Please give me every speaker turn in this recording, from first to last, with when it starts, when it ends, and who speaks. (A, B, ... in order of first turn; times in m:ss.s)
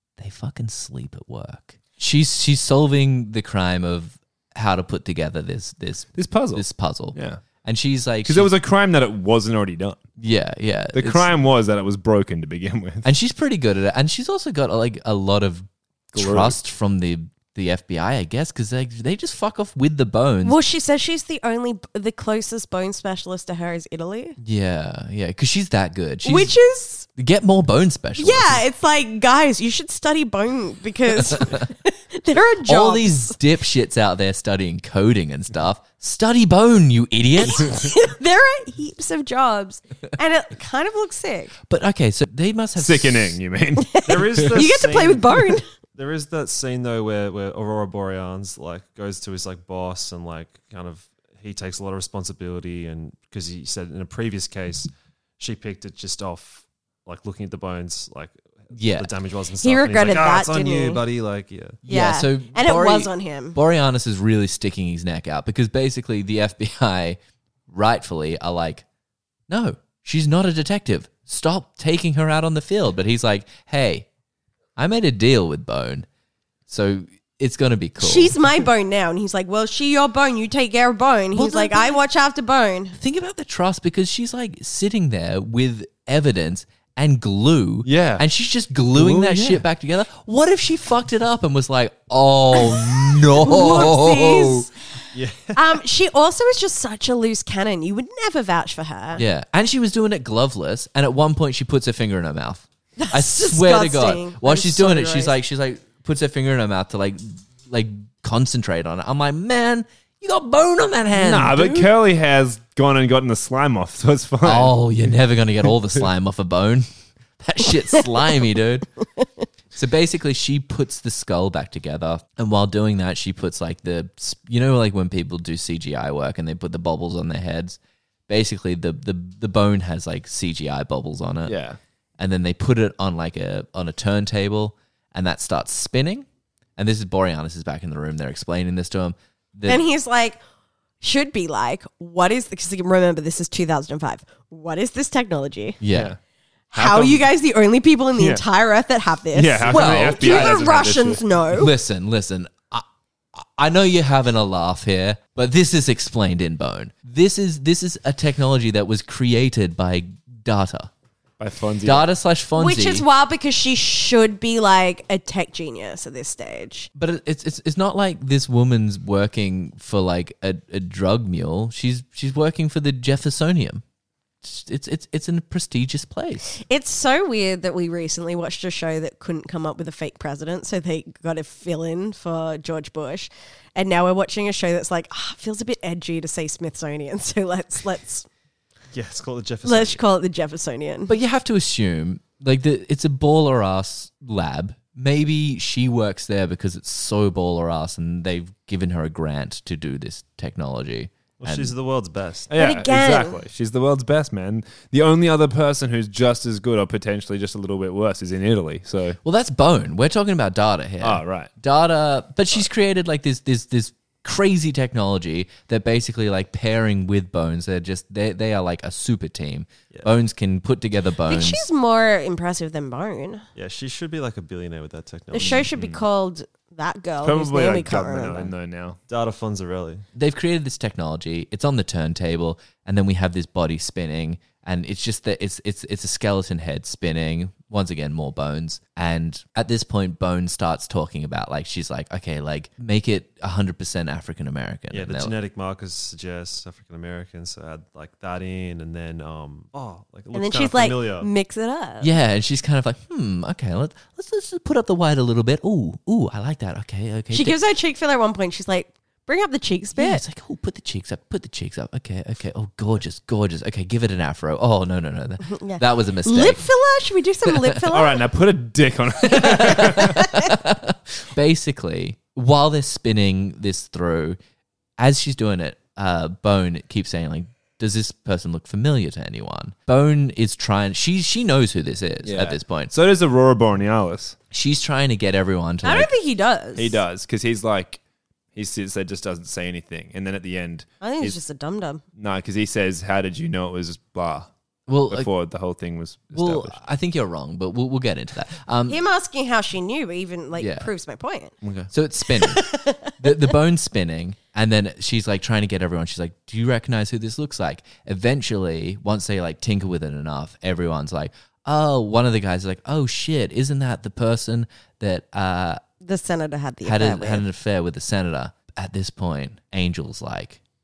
0:00.2-0:08.5 A
0:06.1-0:07.4 B
0:08.2-0:10.0 B
0:10.2-0:11.3 A
0:10.9-0:13.1 B
0:13.0-0:20.6 A
0:16.1-0:16.6 B
0:20.4-0:24.4 C
0:24.4-0:26.5 A
0:26.2-0:27.1 C
0:27.2-0:28.6 A
0:28.2-0:33.4 C
0:31.2-0:31.7 A
0:32.6-0:37.8 A
0:37.4-0:41.5 C
0:41.7-0:43.4 A
0:42.8-0:44.5 B
0:43.8-0:45.6 C
0:44.0-1:01.8 D
0:58.7-0:59.1 A
0:59.6-1:01.0 C
1:01.8-1:07.2 A
1:01.9-1:03.6 C
1:07.7-1:08.8 A
1:09.5-1:14.0 A
1:14.8-1:16.0 A
1:16.7-1:18.3 A
1:18.0-1:23.0 C
1:21.3-1:22.0 A
1:23.0-1:34.7 A
1:27.8-1:28.2 B
1:28.9-1:29.6 B
1:32.6-1:34.7 C
1:35.1-1:35.6 D
1:35.5-1:39.2 C
1:39.2-1:51.9 A
1:43.0-1:45.3 C
1:51.1-1:54.8 B
1:54.4-1:56.9 A
1:57.4-1:58.9 A
1:59.7-2:11.5 A
2:11.4-2:11.8 B
2:12.2-2:16.2 A
2:16.8-2:19.8 A
2:19.6-2:20.4 C
2:21.0-2:25.8 C
2:25.8-2:26.1 A
2:25.9-2:26.2 B
2:26.7-2:31.7 C
2:26.7-2:27.3 B
2:28.2-2:28.4 B
2:29.3-2:31.2 B
2:29.7-2:30.6 A
2:31.5-2:40.9 A
2:41.4-2:42.1 B
2:41.8-2:43.0 A
2:42.6-2:46.9 C
2:47.0-2:53.8 A
2:54.4-2:56.6 A
2:56.5-3:08.3 C
3:08.9-3:10.0 D
3:09.6-3:11.1 C
3:11.1-3:21.7 A
3:21.4-3:22.5 D
3:22.5-3:29.2 B
3:22.6-3:23.4 C
3:29.2-3:41.6 A
3:31.0-3:31.5 B
3:41.2-3:43.4 C
3:43.5-3:45.7 D
3:45.3-3:48.5 C
3:45.5-3:46.0 B
3:47.2-3:49.0 B
3:49.1-3:50.0 D
3:50.1-4:05.3 A
4:04.9-4:11.3 D
4:10.3-4:12.1 C
4:12.0-4:17.6 A
4:17.3-4:20.2 C
4:20.0-4:26.6 A
4:25.5-4:28.2 C
4:27.9-4:30.2 B
4:29.4-4:34.4 A
4:29.9-4:30.4 C
4:35.0-4:42.9 A
4:42.2-4:44.4 B
4:44.5-4:46.1 A
4:45.8-4:47.0 C
4:46.8-4:48.0 B
4:48.5-4:51.4 B
4:51.0-4:52.0 C
4:52.2-4:54.5 B
4:54.9-4:55.3 A
4:55.1-4:56.8 B
4:56.3-4:59.0 A
4:58.9-5:01.5 C
5:00.6-5:00.9 A
5:01.6-5:01.9 B
5:01.9-5:02.7 A
5:02.4-5:03.1 C
5:03.2-5:15.8 A
5:16.0-5:17.4 C
5:16.8-5:20.6 A